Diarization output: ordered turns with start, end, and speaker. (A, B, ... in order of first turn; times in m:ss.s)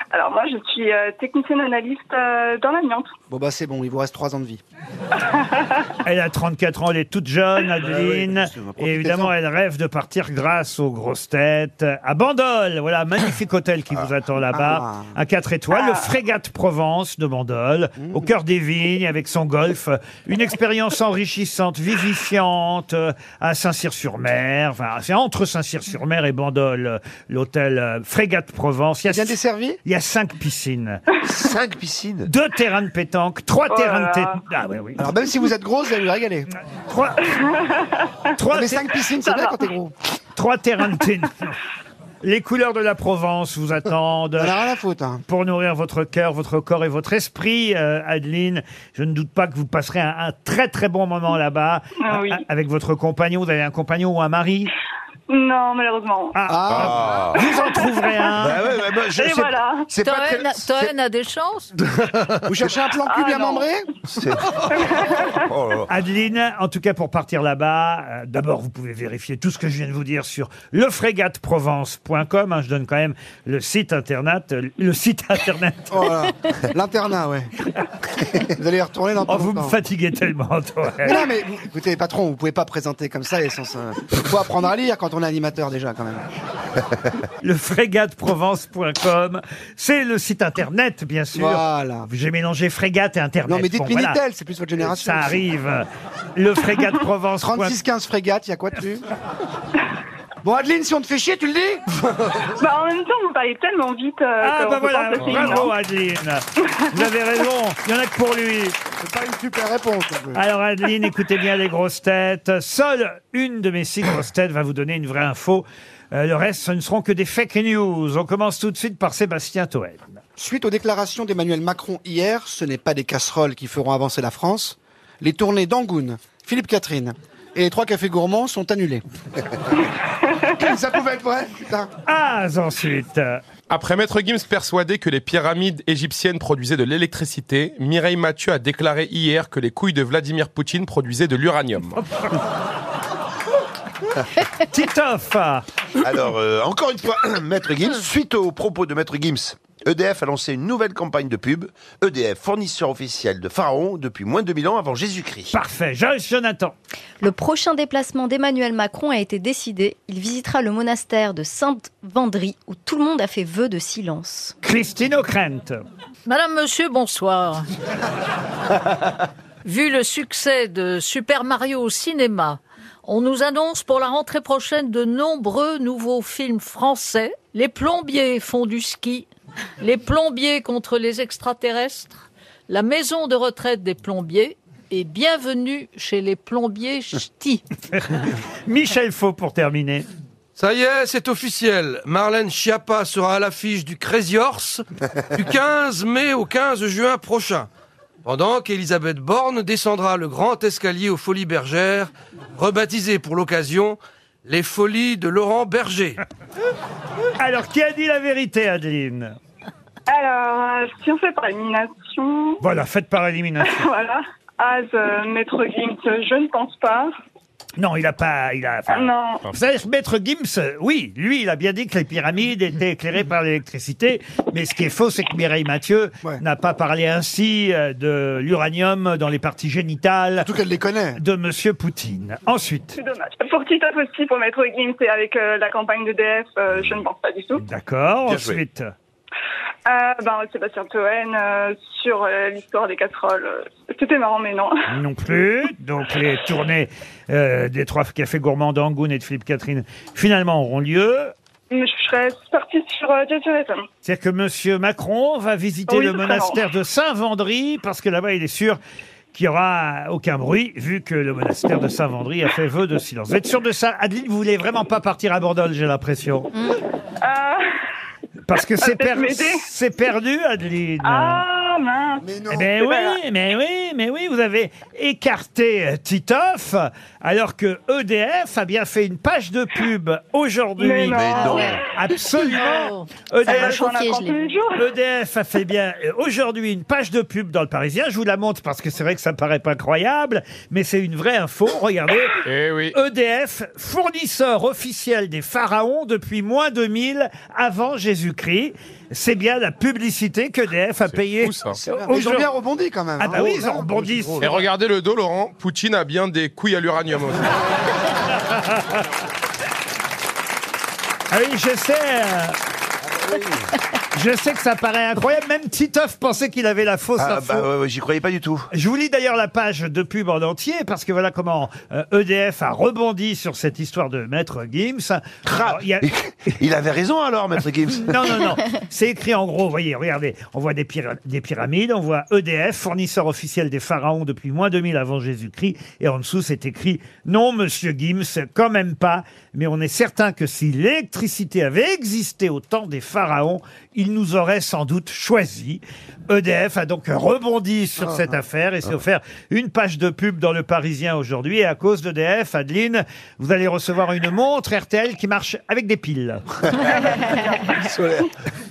0:00.1-0:03.1 A
0:03.3-0:04.6 B
0:05.3-0:05.8 A
0:06.0-0:31.0 C
0:08.0-0:08.6 D
0:08.8-0:09.3 B
0:14.5-0:15.2 B
0:15.7-0:16.1 A
0:18.0-0:18.3 B
0:29.0-0:29.8 B
0:31.2-0:32.3 D
0:32.2-0:35.0 C
0:33.7-0:34.3 A
0:35.0-0:36.5 B
0:36.9-0:37.3 C
0:37.5-0:38.1 A
0:38.3-0:39.0 C
0:38.5-0:40.0 B
0:39.2-0:39.6 A
0:40.4-0:41.6 C
0:42.2-0:44.5 C
0:44.4-0:45.2 B
0:45.3-0:54.7 C
0:52.1-0:52.4 A
0:55.3-0:56.4 A
0:56.3-0:58.6 C
0:56.5-0:57.0 B
0:56.7-0:57.4 D
0:57.3-0:58.1 A
0:58.4-1:00.9 D
0:59.0-1:00.0 A
1:00.0-1:01.7 E
1:02.5-1:03.9 B
1:03.1-1:03.7 A
1:04.1-1:04.9 D
1:04.8-1:05.3 A
1:05.5-1:05.9 D
1:05.9-1:16.1 C
1:15.9-1:17.5 B
1:18.3-1:19.8 B
1:19.3-1:21.2 C
1:21.0-1:26.2 B
1:27.4-1:34.2 C
1:31.3-1:32.1 B
1:33.5-1:35.4 B
1:34.9-1:35.8 C
1:36.4-1:37.8 C
1:37.4-1:39.1 B
1:40.4-1:41.8 B
1:42.6-1:45.7 A
1:44.4-1:48.8 C
1:49.0-1:50.4 B
1:50.4-2:00.2 C
2:00.4-2:09.0 B
2:10.5-2:11.9 B
2:12.1-2:13.4 C
2:13.7-2:22.0 F
2:24.5-2:25.6 C
2:26.0-2:35.5 D
2:35.5-2:36.7 C
2:37.2-2:44.5 G
2:44.6-2:45.8 C
2:46.3-2:47.6 E
2:49.6-2:59.3 E
2:59.8-3:07.6 E
3:07.9-3:10.1 C
3:10.6-3:17.7 H
3:18.2-3:26.2 H
3:27.4-3:29.4 C
3:30.1-3:32.6 A
3:32.6-3:33.9 C
3:33.7-3:37.1 A
3:37.8-3:50.5 C
3:38.9-3:39.4 A
3:50.4-3:51.2 B
3:51.2-3:53.0 C
3:52.9-3:57.6 A
3:57.6-3:58.9 C
3:58.3-3:58.6 D
3:59.9-4:04.7 A
4:04.9-4:11.3 C
4:11.7-4:13.8 A
4:14.0-4:18.8 C
4:15.9-4:16.6 A
4:19.3-4:26.5 C
4:27.2-4:27.6 A
4:28.4-4:31.4 C
4:28.8-4:29.6 A
4:31.0-4:33.2 A
4:32.2-4:32.7 B
4:32.5-4:43.8 C
4:40.8-4:41.9 A
4:41.1-4:41.8 D
4:41.2-4:41.8 G
4:42.4-4:43.1 E
4:43.5-4:44.4 G
4:43.5-4:44.8 A
4:44.8-5:02.5 C
4:52.4-4:52.9 F
5:01.1-5:01.8 F
5:02.1-5:03.9 B
5:03.2-5:04.7 C
5:04.4-5:07.6 F
5:11.3-5:12.6 C
5:13.0-5:13.7 D
5:14.1-5:17.7 C
5:17.2-5:18.7 D
5:18.7-5:26.6 C
5:25.5-5:28.3 D
5:27.9-5:56.9 C
5:56.8-5:58.2 A